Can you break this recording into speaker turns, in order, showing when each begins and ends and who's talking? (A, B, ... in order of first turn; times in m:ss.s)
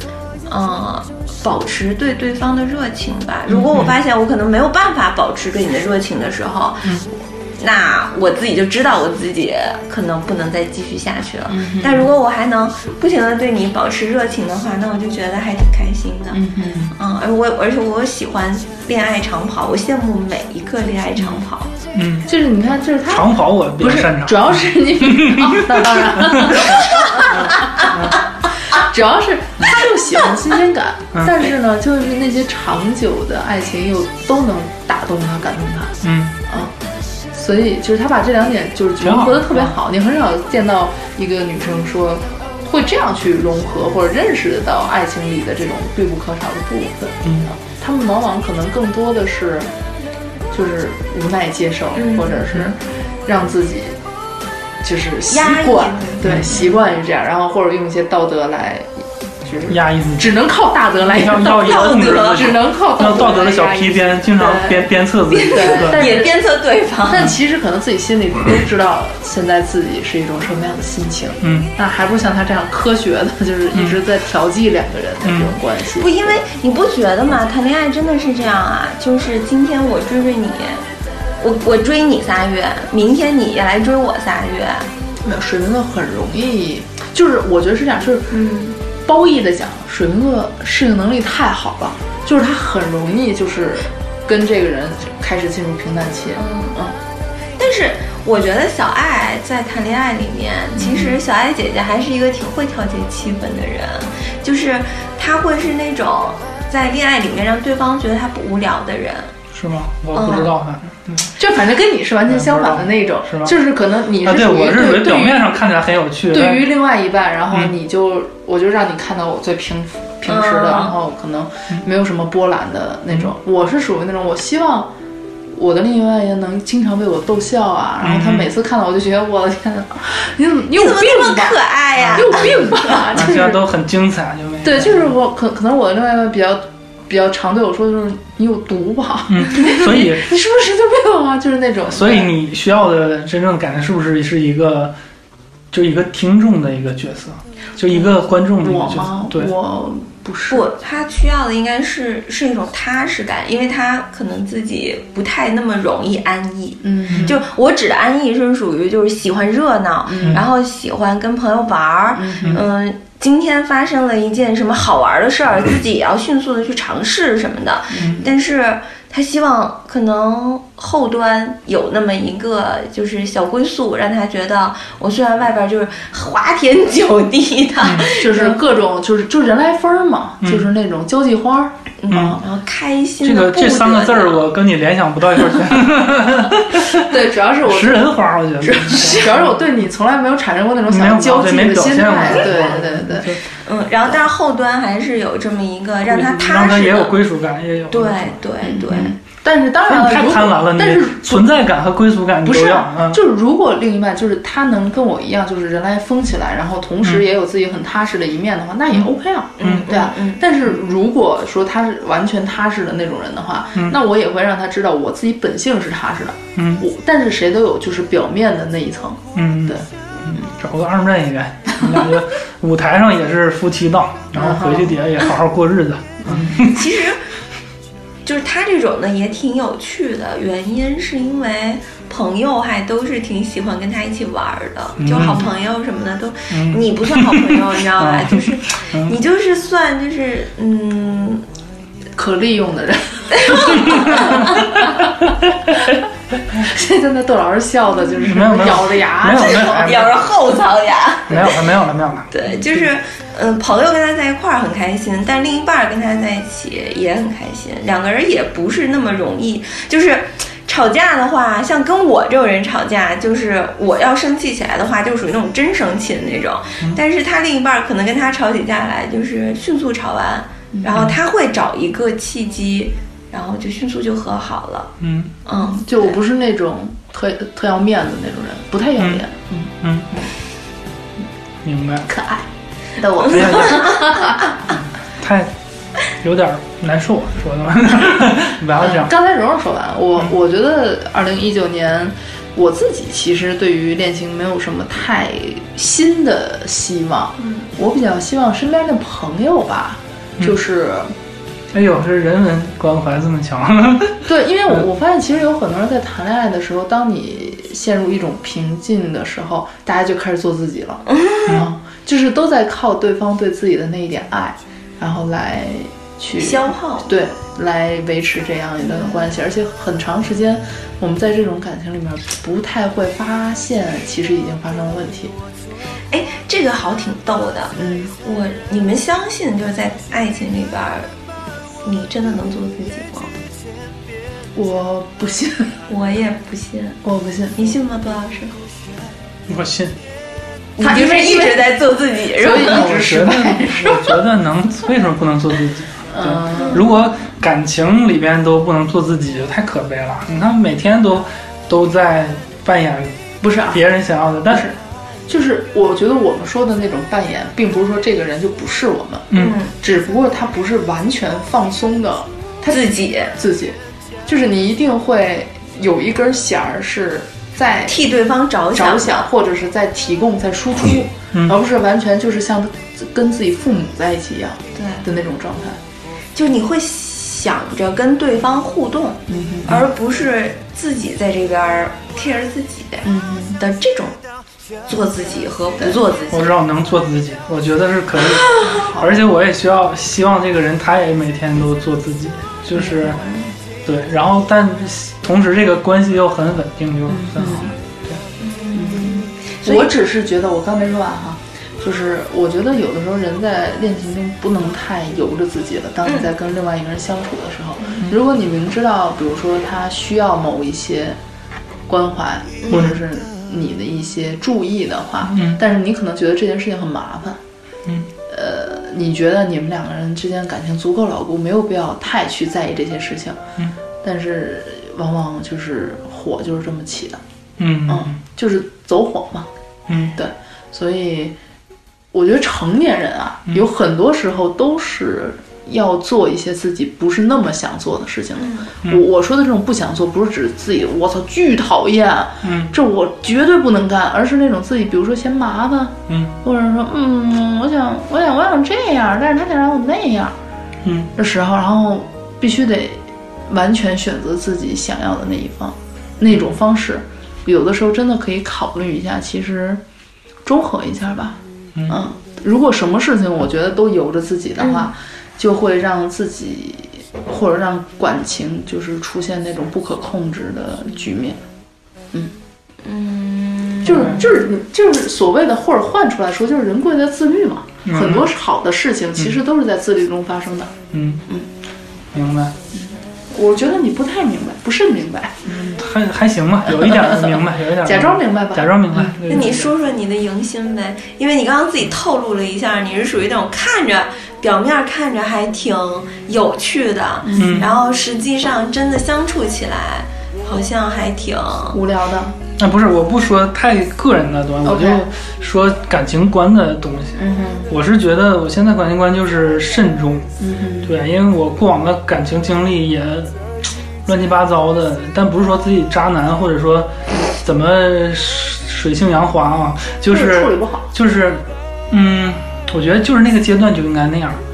0:00.5-0:21.7 A
0:03.5-0:03.9 B
0:11.5-0:12.1 C
0:16.3-0:16.9 C
0:21.2-0:21.4 C
0:21.9-0:22.3 B
0:22.3-0:28.0 C
0:23.1-0:28.2 B
0:26.8-0:27.3 A
0:28.7-0:36.7 C
0:31.1-0:31.4 B
0:36.0-0:36.4 B
0:37.3-0:49.7 C
0:39.0-0:39.8 B
0:47.2-0:47.5 B
0:50.5-0:54.0 C
0:51.9-0:52.5 A
0:54.8-1:04.8 C
0:55.3-0:56.8 A
0:56.2-0:56.6 B
0:59.7-1:00.3 B
1:01.0-1:06.2 B
1:01.5-1:02.6 A
1:05.3-1:07.3 A
1:05.5-1:06.4 C
1:07.1-1:16.4 C
1:11.4-1:11.7 B
1:13.7-1:14.0 B
1:15.2-1:15.6 B
1:16.0-1:20.8 A
1:21.4-1:24.9 A
1:25.2-1:28.3 C
1:28.3-1:28.8 A
1:29.0-1:37.0 C
1:36.4-1:36.8 A
1:37.6-1:49.3 A
1:40.8-1:41.2 C
1:49.5-1:51.3 B
1:50.1-1:50.5 A
1:51.4-1:55.5 C
1:52.3-1:53.6 B
1:54.2-1:56.7 B
1:56.3-2:04.9 C
2:00.3-2:01.0 A
2:05.5-2:11.6 C
2:08.0-2:08.5 B
2:10.7-2:13.0 A
2:12.0-2:12.5 B
2:12.2-2:13.6 C
2:13.1-2:15.1 B
2:14.6-2:22.3 C
2:19.3-2:20.3 B
2:21.9-2:24.9 B
2:25.7-2:29.5 B
2:28.6-2:30.7 C
2:30.5-2:58.6 A
2:36.8-2:37.4 C
2:37.1-2:37.3 B
2:40.1-2:40.4 C
2:42.1-2:42.6 C
2:47.9-2:48.3 C
2:57.8-2:58.1 B
2:58.0-3:02.4 C
3:00.4-3:00.7 B
3:02.0-3:04.5 A
3:02.1-3:02.4 B
3:03.2-3:07.1 B
3:06.9-3:13.4 C
3:07.6-3:09.6 B
3:09.0-3:09.2 A
3:10.9-3:13.4 B
3:13.6-3:17.2 A
3:16.1-3:18.4 B
3:17.9-3:19.1 A
3:18.6-3:21.5 C
3:19.8-3:23.2 B
3:22.4-3:40.4 C
3:29.6-3:30.4 A
3:29.6-3:29.9 B
3:36.6-3:36.8 B
3:39.4-3:46.9 B
3:44.3-3:45.0 C
3:46.2-3:46.7 C
3:46.6-3:47.2 A
3:48.2-4:01.4 A
3:55.0-3:55.5 B
3:56.5-3:59.2 B
4:02.2-4:05.1 C
4:03.3-4:04.6 A
4:03.8-4:04.6 B
4:06.5-4:09.9 C
4:08.2-4:10.3 B
4:09.3-4:11.6 A
4:11.3-4:12.9 B
4:12.3-4:34.9 A
4:30.7-4:31.1 C
4:35.0-4:35.3 B
4:35.4-4:36.2 A
4:35.6-4:40.3 C
4:39.0-4:39.2 B
4:39.8-4:40.1 B
4:41.6-4:42.1 B
4:42.1-4:42.5 C
4:43.0-4:44.6 C
4:43.2-4:44.0 B
4:45.2-4:45.5 B
4:46.1-4:49.1 B
4:48.8-5:01.1 C
5:01.7-5:04.8 B
5:04.3-5:25.3 C
5:11.1-5:11.6 A
5:16.4-5:17.1 A
5:18.8-5:19.2 A
5:26.1-5:31.1 A
5:27.8-5:28.1 C
5:31.8-5:33.3 A
5:34.6-5:35.7 C
5:35.9-5:37.0 A
5:37.0-5:37.6 C
5:37.6-5:38.6 A
5:39.5-5:40.0 B
5:40.8-5:42.9 A
5:40.8-5:41.7 C
5:42.4-5:44.2 C
5:42.6-5:54.7 B
5:46.1-5:46.9 C
5:46.5-5:46.9 A
5:53.4-5:53.8 C
5:54.5-6:08.0 C
5:59.3-5:59.6 B
5:59.4-5:59.7 A
6:02.7-6:03.4 A
6:07.9-6:09.3 A
6:08.7-6:15.8 C
6:14.8-6:15.1 A
6:16.4-6:23.1 A
6:19.3-6:19.8 C
6:23.0-6:23.6 C
6:23.6-6:24.2 A
6:24.9-6:26.5 A
6:26.3-6:33.2 B
6:28.2-6:28.8 A
6:28.6-6:29.2 C
6:33.1-6:33.5 A
6:33.8-6:38.2 B
6:37.1-6:37.7 C
6:38.4-6:39.9 A
6:38.8-6:51.2 C
6:46.0-6:46.3 A
6:51.9-6:57.4 C
6:52.6-6:52.9 A
6:52.7-6:53.0 B
6:55.3-6:55.6 B
6:58.3-7:03.4 C
7:04.0-7:07.2 C
7:07.6-7:08.2 B
7:07.9-7:09.5 C
7:09.9-7:10.1 B
7:10.1-7:11.4 C
7:12.1-7:30.4 C
7:18.4-7:18.7 A
7:22.4-7:22.7 B
7:26.1-7:26.3 B
7:30.8-7:31.1 B
7:31.2-7:39.8 C
7:40.4-7:51.4 C
7:44.6-7:44.9 A
7:52.8-7:54.3 A
7:53.8-8:00.8 C
7:53.9-7:54.2 B
7:57.8-7:58.3 B
8:00.9-8:01.2 B
8:02.1-8:02.6 B
8:02.7-8:05.4 C
8:05.4-8:09.7 B
8:06.8-8:09.5 C
8:09.3-8:21.8 A
8:17.2-8:17.7 C
8:17.4-8:17.7 B
8:21.7-8:22.4 C
8:22.6-8:30.3 B
8:24.6-8:25.1 C
8:27.2-8:27.7 C
8:30.4-8:31.0 C
8:30.8-8:33.4 B
8:34.1-8:44.4 B
8:40.1-8:40.9 C